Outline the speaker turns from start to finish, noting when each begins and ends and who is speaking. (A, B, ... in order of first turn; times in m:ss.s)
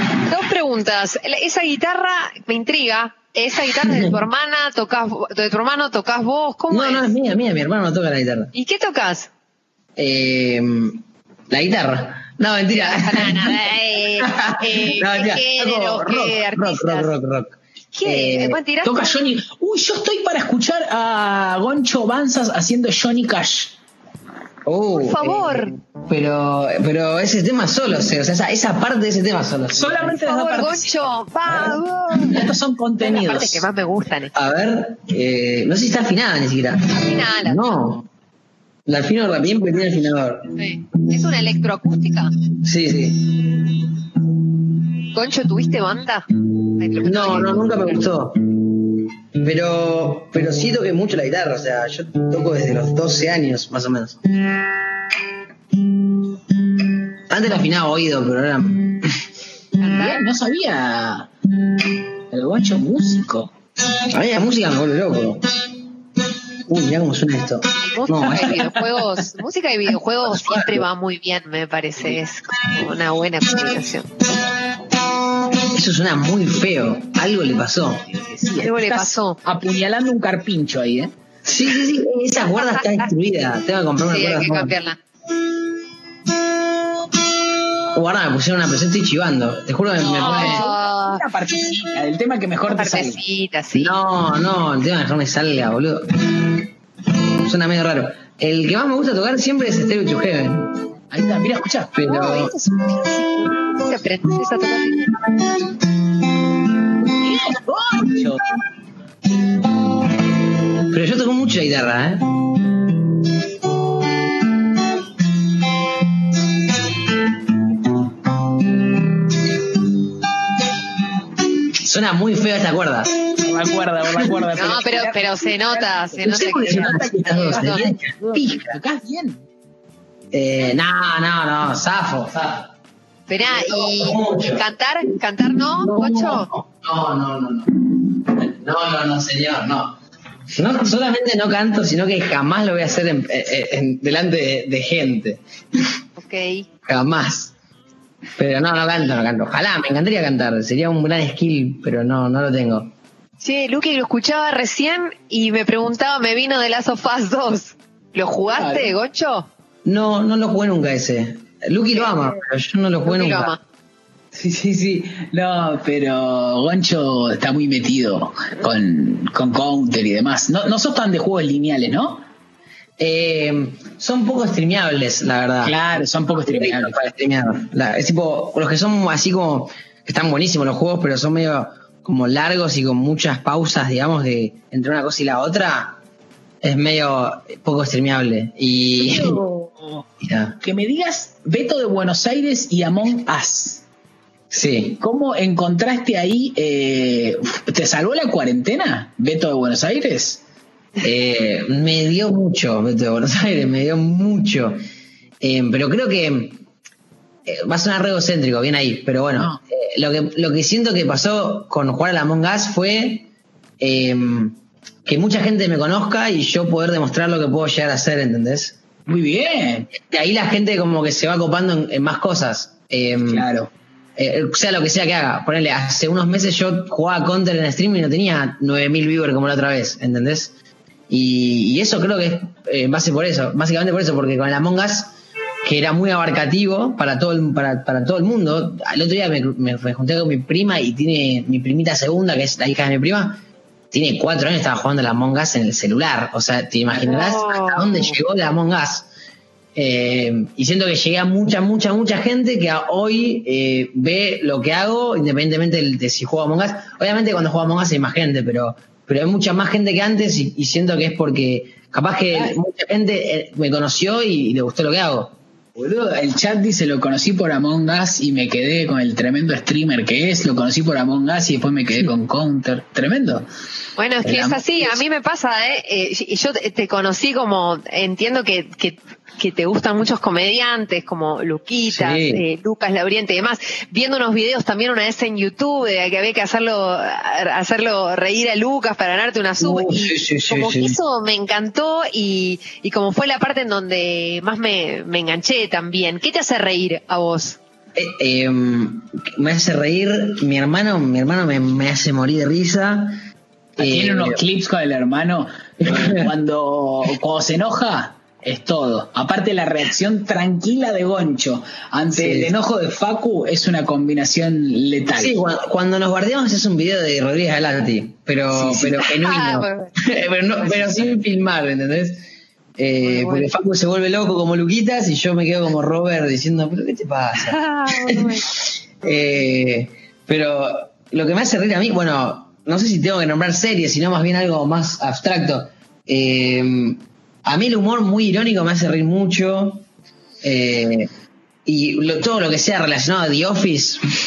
0:00.3-0:07.1 A
0:03.8-0:04.1 B
0:06.7-0:08.5 B
0:08.5-0:09.3 A
0:10.0-0:18.6 B
0:12.7-0:17.1 A
0:17.9-0:19.3 A
0:18.8-0:23.8 C
0:24.7-0:30.2 B
0:24.9-0:25.8 A
0:29.7-0:31.7 C
0:30.2-0:32.4 A
0:32.2-0:33.6 C
0:33.0-0:34.3 A
0:34.3-0:38.1 B
0:36.9-0:37.9 A
0:38.9-0:40.5 B
0:40.6-0:42.3 A
0:42.6-0:43.8 B
0:45.1-0:46.2 A
0:46.8-0:48.0 A
0:47.0-0:48.4 B
0:49.4-0:54.2 B
0:57.3-0:59.1 B
0:59.8-1:00.3 A
0:59.9-1:01.3 C
1:02.3-1:03.5 C
1:04.1-1:05.4 B
1:06.7-1:08.7 B
1:07.8-1:14.1 A
1:10.3-1:10.8 B
1:15.7-1:18.0 B
1:18.1-1:21.1 C
1:18.6-1:19.4 A
1:21.5-1:24.7 B
1:22.6-1:23.1 A
1:24.0-1:25.0 A
1:27.9-1:30.6 B
1:30.0-1:33.2 C
1:30.2-1:31.2 A
1:32.7-1:34.0 A
1:33.8-1:36.6 B
1:37.4-1:40.7 B
1:41.1-1:42.0 C
1:41.9-1:42.6 B
1:42.0-1:45.2 A
1:47.2-1:48.4 C
1:50.9-1:52.3 B
2:01.8-2:03.3 B
2:03.4-2:09.4 C
2:04.5-2:07.8 A
2:06.3-2:08.8 B
2:10.3-2:12.7 B
2:13.3-2:16.5 A
2:13.5-2:14.6 B
2:15.8-2:17.7 B
2:18.3-2:20.0 B
2:20.6-2:25.4 B
2:26.2-2:26.7 A
2:26.8-2:27.5 B
2:28.4-2:32.9 B
2:33.4-2:39.5 A
2:38.4-2:39.0 C
2:39.8-2:43.6 B
2:43.1-2:43.6 A
2:44.3-2:52.2 C
2:53.0-2:55.8 B
2:55.6-2:57.0 C
2:56.4-3:06.0 B
3:06.6-3:09.4 B
3:09.0-3:10.0 C
3:10.2-3:10.6 B
3:10.6-3:13.8 C
3:14.5-3:15.0 B
3:15.0-3:20.4 C
3:21.0-3:24.8 B
3:25.4-3:26.6 B
3:27.5-3:33.3 B
3:33.8-3:38.8 B
3:39.1-3:39.9 C
3:40.0-3:43.5 B
3:43.3-3:43.7 C
3:44.2-3:50.5 B
3:51.1-4:03.4 B
4:03.9-4:09.1 B
4:07.0-4:08.2 A
4:09.8-4:25.3 B
4:25.8-4:33.5 C
4:34.0-4:57.6 A
4:34.2-4:35.0 C
4:41.9-4:42.4 B
4:49.6-4:51.0 B
4:58.0-5:03.2 B
5:03.8-5:15.4 C
5:03.8-5:04.4 B
5:05.8-5:06.3 B
5:12.1-5:12.5 B
5:15.2-5:22.2 B
5:18.5-5:19.0 C
5:19.0-5:20.0 A
5:20.6-5:20.9 A
5:22.8-5:27.6 B
5:23.0-5:23.5 A
5:27.4-5:28.5 A
5:29.0-5:39.8 B
5:40.4-5:41.1 B
5:41.6-5:44.0 B